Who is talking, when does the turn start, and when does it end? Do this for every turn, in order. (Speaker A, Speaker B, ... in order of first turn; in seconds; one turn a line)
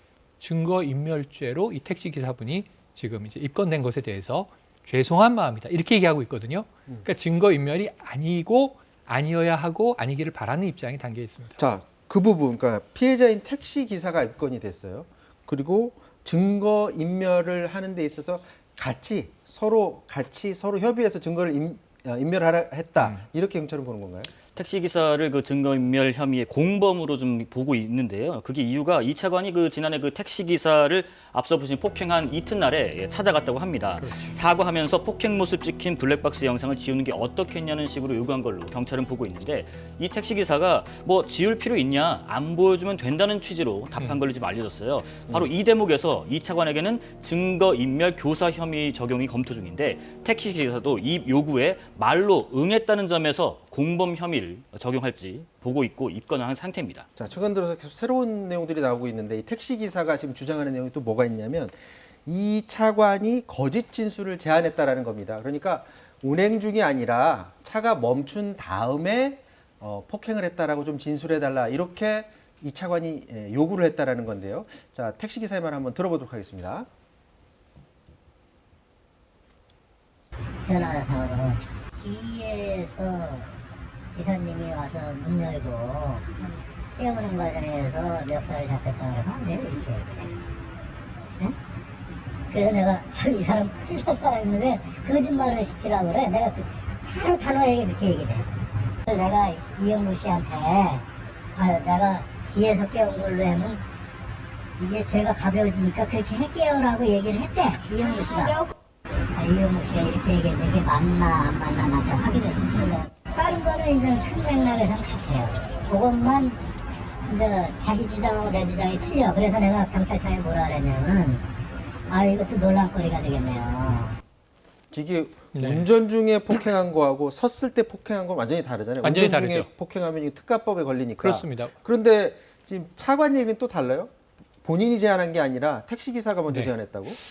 Speaker A: 0.4-11.6
Speaker B: 11.6-24.3
Speaker C: 24.5-57.1
Speaker A: 34.0-34.3
Speaker B: 57.1-76.9
Speaker D: 80.6-83.5
Speaker D: 84.1-86.4
Speaker D: 86.9-90.4
Speaker D: 92.5-103.8
Speaker D: 104.8-108.7
Speaker D: 109.3-116.6
Speaker D: 117.2-121.4
Speaker D: 122.1-124.2
Speaker B: 124.9-134.1
Speaker A: 125.5-125.9
Speaker A: 129.0-129.7
Speaker A: 131.2-131.7
Speaker B: 134.6-137.2
Speaker A: 136.5-136.7